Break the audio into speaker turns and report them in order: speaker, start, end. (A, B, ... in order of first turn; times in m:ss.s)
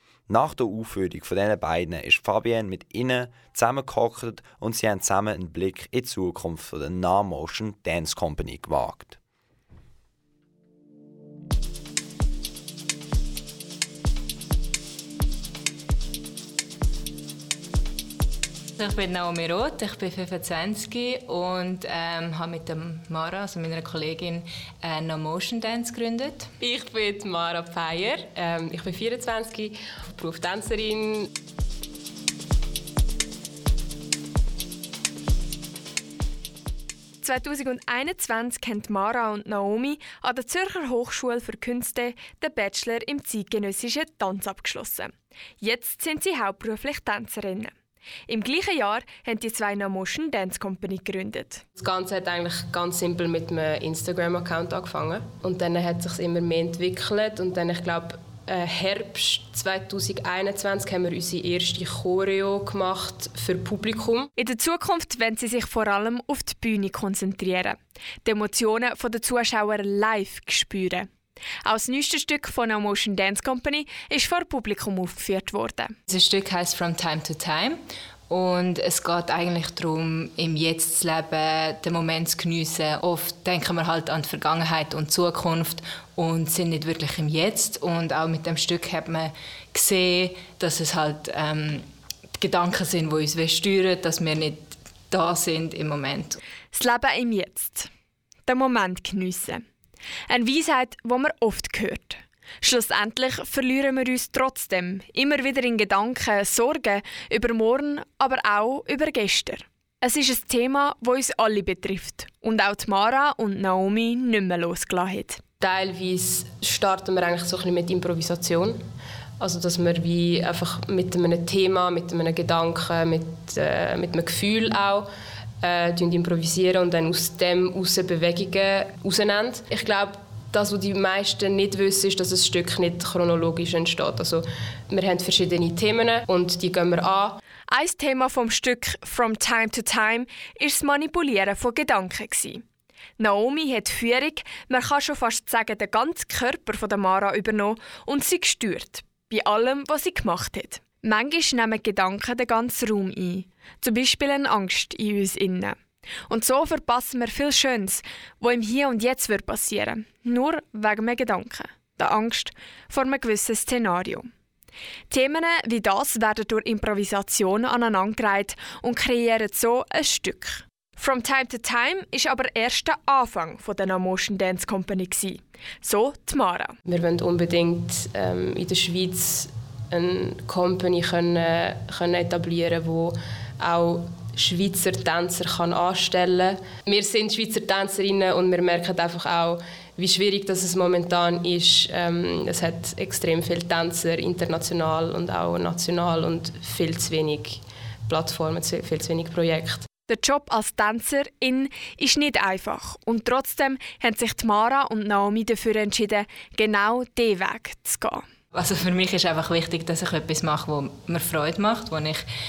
0:00.3-0:09.2 A
0:18.8-0:26.5 B
0:26.6-0:31.3 C
0:37.2-0:47.7 D
0:48.3-0:51.6 D
0:51.8-1:04.3 C
1:04.4-1:11.1 D
1:11.6-1:15.9 D
1:16.1-1:36.4 B
1:36.7-1:37.9 D
1:38.5-1:39.6 D
1:40.3-1:55.4 D
1:55.6-1:58.8 C
1:59.4-2:05.1 C
2:05.6-2:17.4 C
2:17.7-2:22.6 D
2:23.2-2:44.3 D
2:45.1-2:56.8 D
2:56.8-3:19.9 C
3:20.1-3:28.2 D
3:28.5-3:32.2 B